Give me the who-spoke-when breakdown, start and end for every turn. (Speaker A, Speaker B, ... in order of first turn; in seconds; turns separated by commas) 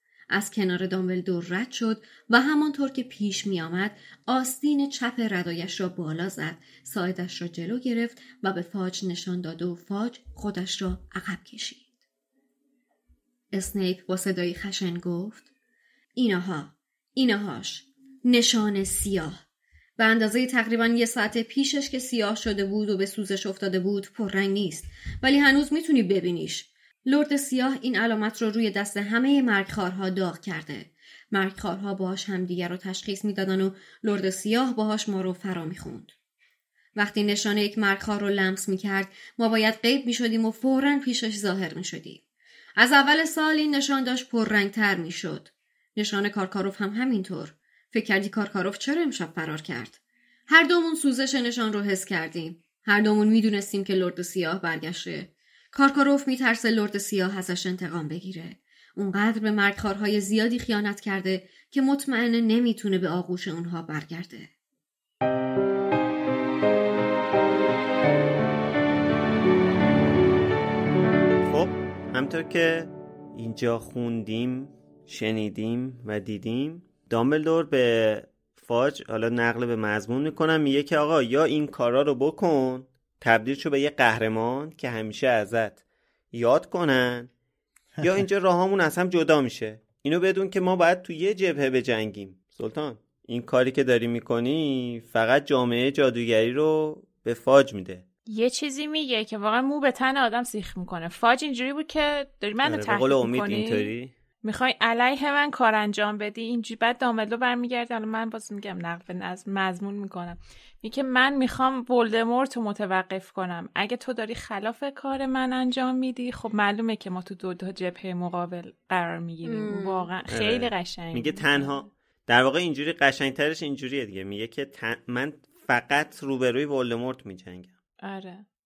Speaker A: 0.3-11.8, Speaker A: 13.5-15.5, Speaker A: 16.2-19.4, Speaker A: 20.0-36.1, Speaker A: 37.0-42.2, Speaker A: 42.8-50.0, Speaker A: 50.5-64.5, Speaker B: 71.5-85.8, Speaker B: 86.3-87.3, Speaker B: 88.0-98.1, Speaker C: 98.3-103.9, Speaker B: 102.6-104.1, Speaker C: 104.4-121.8, Speaker A: 119.5-120.1, Speaker B: 120.3-127.7, Speaker C: 128.0-128.4